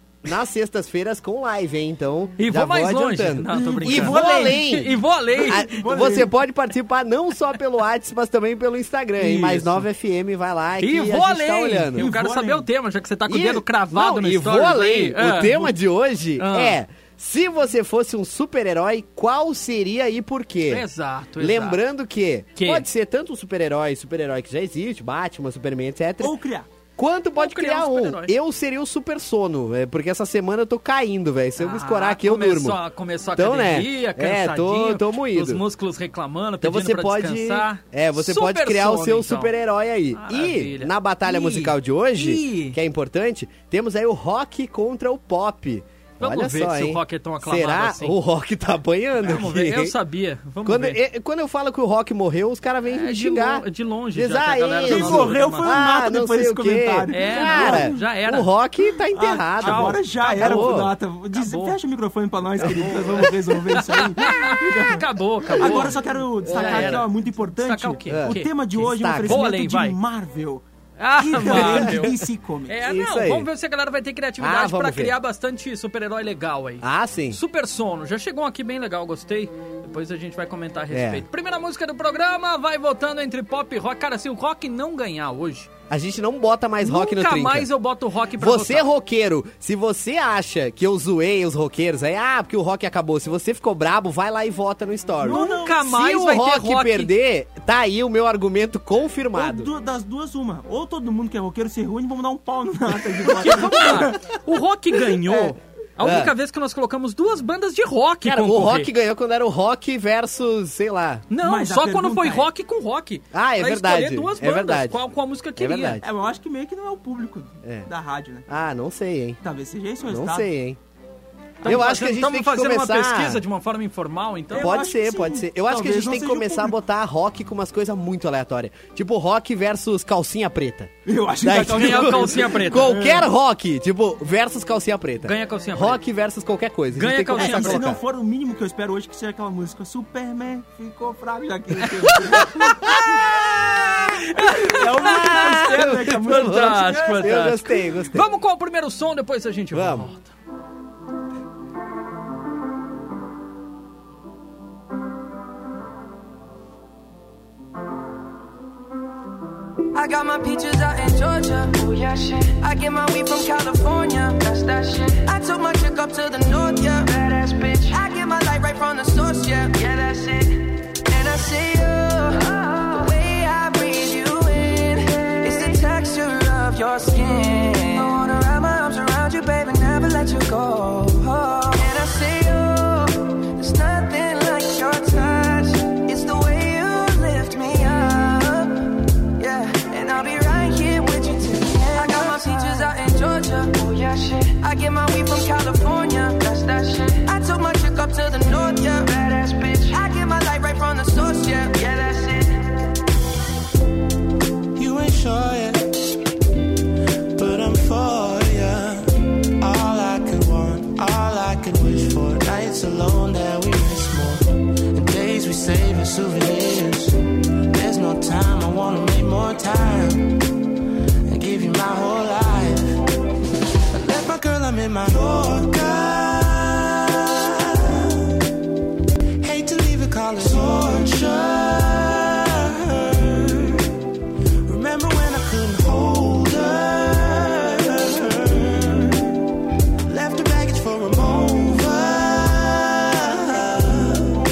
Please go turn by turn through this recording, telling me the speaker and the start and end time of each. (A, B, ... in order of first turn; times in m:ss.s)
0:00.2-0:12.1 A
0:02.4-0:05.8 B
0:03.5-0:04.6 C
0:05.3-0:06.3 C
0:09.2-0:09.8 B
0:10.8-0:15.8 B
0:12.0-0:12.7 C
0:13.3-0:20.9 A
0:16.4-0:16.8 B
0:20.7-0:21.8 B
0:21.4-0:26.4 A
0:22.6-0:22.8 B
0:26.2-0:26.7 C
0:27.0-0:32.8 A
0:27.4-0:28.3 B
0:31.6-0:39.5 B
0:33.3-0:35.6 A
0:36.6-0:49.9 A
0:40.1-0:42.8 B
0:46.2-0:48.2 B
0:49.2-0:51.0 B
0:50.6-1:00.9 A
0:52.9-0:55.8 B
0:54.8-0:58.0 C
0:57.1-0:58.5 B
0:59.2-1:10.6 C
0:59.2-1:00.8 B
1:01.3-1:01.8 B
1:02.6-1:03.3 A
1:02.6-1:06.0 B
1:05.6-1:07.1 A
1:06.5-1:08.6 B
1:08.1-1:09.4 A
1:09.2-1:10.0 B
1:11.0-1:12.2 B
1:11.2-1:12.7 C
1:11.4-1:12.1 A
1:12.7-1:25.7 B
1:12.8-1:13.5 A
1:14.4-1:15.1 A
1:16.8-1:17.4 A
1:20.9-1:21.2 A
1:25.9-1:27.7 A
1:26.8-1:28.9 B
1:28.4-1:39.7 A
1:35.2-1:35.8 C
1:35.2-1:37.1 B
1:39.3-1:44.2 C
1:43.2-1:48.9 B
1:45.3-1:46.3 A
1:48.2-1:51.2 A
1:51.3-1:56.0 B
1:51.4-1:52.5 C
1:53.3-1:55.0 A
1:55.6-1:56.0 A
1:56.0-1:58.5 C
1:57.6-1:57.9 A
1:58.5-1:59.4 A
1:59.4-2:00.5 C
2:00.1-2:00.8 A
2:01.6-2:04.8 B
2:01.6-2:03.4 A
2:04.5-2:06.7 C
2:04.6-2:18.0 A
2:11.0-2:13.2 C
2:11.5-2:13.0 B
2:15.2-2:16.0 B
2:16.9-2:17.8 B
2:17.4-2:23.0 C
2:22.1-2:23.1 B
2:22.9-2:23.9 A
2:24.0-2:30.3 B
2:24.4-2:27.5 C
2:25.0-2:28.2 A
2:29.7-2:30.1 A
2:39.9-3:08.8 D
3:09.4-3:22.7 D
3:24.8-3:26.0 E
3:27.3-3:40.3 E
3:41.3-3:43.0 E
3:43.9-3:48.1 E
3:49.4-3:53.8 E
3:54.6-3:59.2 E
4:00.0-4:04.2 E